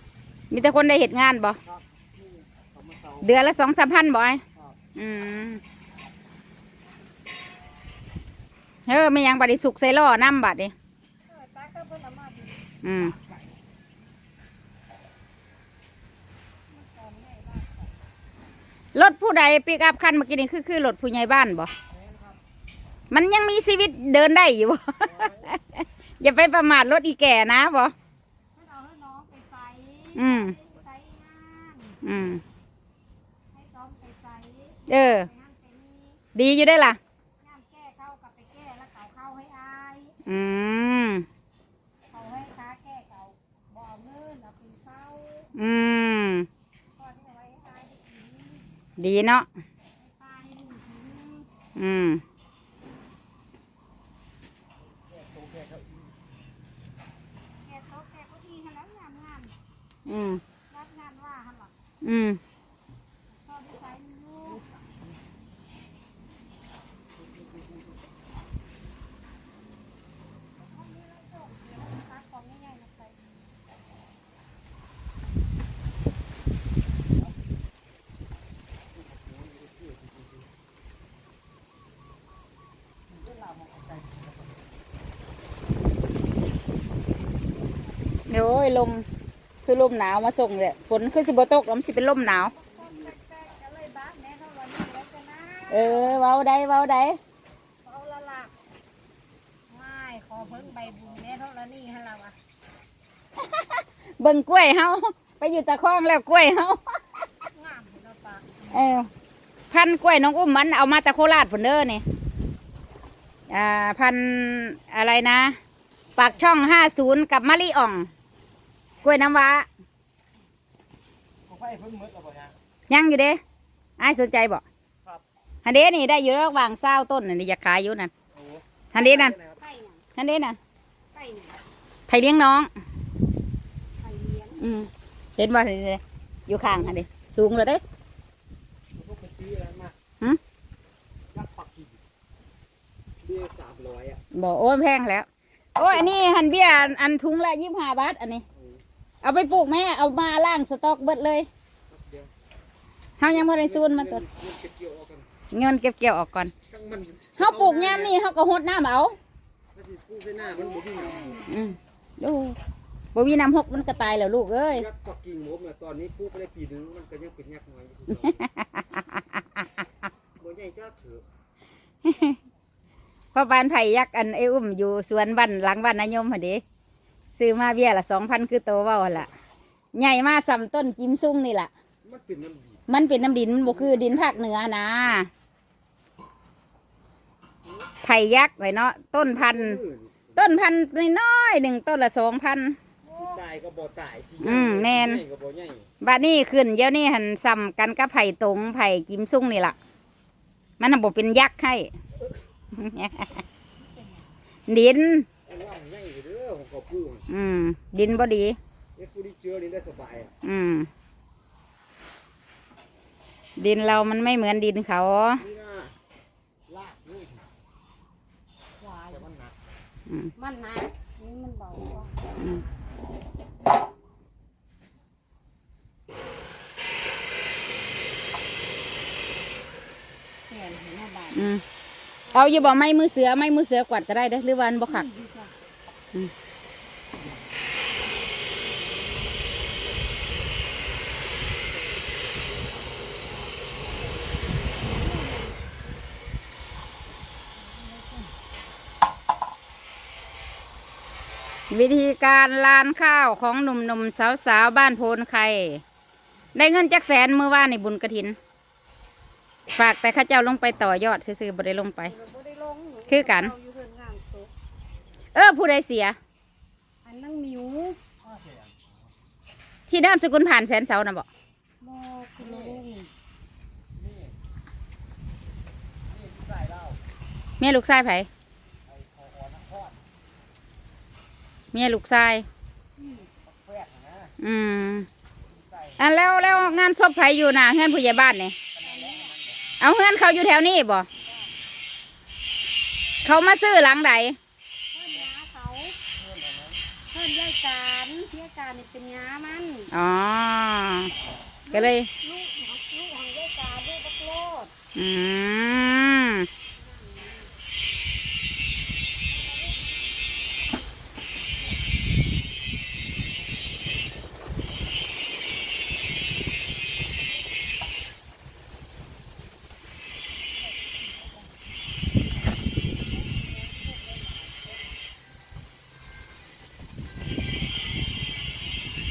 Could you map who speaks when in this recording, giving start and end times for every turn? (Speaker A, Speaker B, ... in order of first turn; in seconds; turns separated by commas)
Speaker A: 0.5-1.6, Speaker B: 1.6-3.3, Speaker A: 3.2-4.4, Speaker A: 5.0-5.6, Speaker A: 8.9-10.7, Speaker C: 11.2-12.6, Speaker A: 12.8-13.2, Speaker C: 16.7-18.0, Speaker A: 18.9-21.7, Speaker B: 21.9-22.3, Speaker A: 23.1-27.9, Speaker B: 25.0-25.5, Speaker C: 28.5-32.0, Speaker A: 30.1-30.6, Speaker A: 32.0-32.4, Speaker C: 33.5-36.2, Speaker A: 34.9-35.3, Speaker A: 36.3-37.0, Speaker C: 37.4-40.2, Speaker A: 40.2-41.2, Speaker C: 42.1-45.5, Speaker A: 45.5-46.5, Speaker C: 47.0-48.6, Speaker A: 49.0-49.5, Speaker C: 50.0-51.5, Speaker A: 51.8-52.2, Speaker B: 55.1-56.1, Speaker C: 57.6-59.5, Speaker A: 60.0-60.4, Speaker C: 60.7-61.7, Speaker A: 62.0-62.4, Speaker C: 63.3-64.7, Speaker C: 70.6-73.2, Speaker B: 78.9-80.5, Speaker B: 83.1-84.5, Speaker A: 88.3-89.0, Speaker A: 89.6-92.5, Speaker C: 92.4-96.2, Speaker A: 95.7-97.2, Speaker C: 97.8-98.5, Speaker C: 99.7-102.3, Speaker A: 103.3-107.2, Speaker C: 107.5-108.9, Speaker A: 108.7-109.1, Speaker A: 109.7-112.0, Speaker A: 113.5-115.6, Speaker A: 116.2-118.1, Speaker A: 119.0-119.7, Speaker B: 121.5-122.5, Speaker A: 122.9-123.4, Speaker A: 124.0-124.6, Speaker A: 125.6-128.1, Speaker B: 128.3-129.6, Speaker A: 128.9-129.3, Speaker C: 129.6-130.0, Speaker A: 130.2-130.6, Speaker C: 131.1-131.6, Speaker A: 132.1-132.7, Speaker C: 134.0-134.7, Speaker A: 134.6-137.8, Speaker B: 138.9-139.9, Speaker B: 141.3-142.0, Speaker B: 143.2-144.2, Speaker A: 144.3-148.4, Speaker B: 148.6-148.8, Speaker A: 149.2-151.5, Speaker B: 151.9-152.3, Speaker A: 153.2-154.2, Speaker B: 153.2-155.3, Speaker A: 155.5-156.5, Speaker B: 156.6-158.2, Speaker A: 157.4-159.2, Speaker B: 159.7-161.4, Speaker C: 160.3-161.7, Speaker A: 161.5-162.6, Speaker A: 163.1-164.9, Speaker B: 164.7-168.4, Speaker A: 168.1-169.6, Speaker B: 170.4-171.2, Speaker A: 172.1-172.3, Speaker A: 173.3-176.6, Speaker A: 177.3-179.3, Speaker A: 179.9-181.7, Speaker B: 182.0-182.8, Speaker A: 182.9-185.3, Speaker B: 183.6-184.4, Speaker A: 188.0-189.8, Speaker B: 189.2-190.5, Speaker A: 190.3-192.8, Speaker C: 193.0-193.4, Speaker B: 193.1-195.9, Speaker A: 194.4-195.2, Speaker A: 196.0-199.8, Speaker A: 200.8-201.9, Speaker A: 202.7-203.3, Speaker C: 203.8-204.3, Speaker A: 204.7-205.3, Speaker B: 205.4-207.2, Speaker A: 207.3-208.6, Speaker B: 208.9-210.3, Speaker A: 210.4-210.9, Speaker A: 213.6-215.4, Speaker B: 215.4-215.9, Speaker B: 216.7-217.5, Speaker C: 218.8-219.3, Speaker B: 219.1-219.5, Speaker C: 220.3-222.3, Speaker C: 230.5-231.4, Speaker A: 231.3-231.6, Speaker C: 232.2-232.8, Speaker A: 232.3-235.1, Speaker C: 234.9-235.5, Speaker C: 244.8-245.7, Speaker C: 247.7-248.3, Speaker A: 251.7-255.8, Speaker A: 256.5-258.4, Speaker A: 259.7-262.1, Speaker C: 262.0-264.5, Speaker A: 263.1-263.5, Speaker A: 265.3-266.2, Speaker C: 267.0-268.0, Speaker B: 268.2-268.8, Speaker A: 269.9-271.2, Speaker C: 271.8-273.1, Speaker B: 272.4-272.9, Speaker B: 273.9-274.4, Speaker B: 276.1-277.0, Speaker A: 277.6-278.3, Speaker B: 278.9-280.0, Speaker A: 281.7-282.5, Speaker C: 283.0-283.3, Speaker B: 283.4-284.3, Speaker A: 284.4-285.1, Speaker B: 285.5-286.6, Speaker A: 286.0-288.6, Speaker B: 288.8-289.7, Speaker C: 288.8-289.4, Speaker A: 289.8-291.1, Speaker A: 293.2-294.4, Speaker C: 294.9-296.0, Speaker B: 296.2-296.8, Speaker C: 297.1-299.9, Speaker A: 299.9-301.1, Speaker C: 301.7-304.7, Speaker A: 301.7-302.1, Speaker A: 304.9-306.5, Speaker C: 306.7-307.6, Speaker C: 309.3-309.9, Speaker C: 323.2-324.5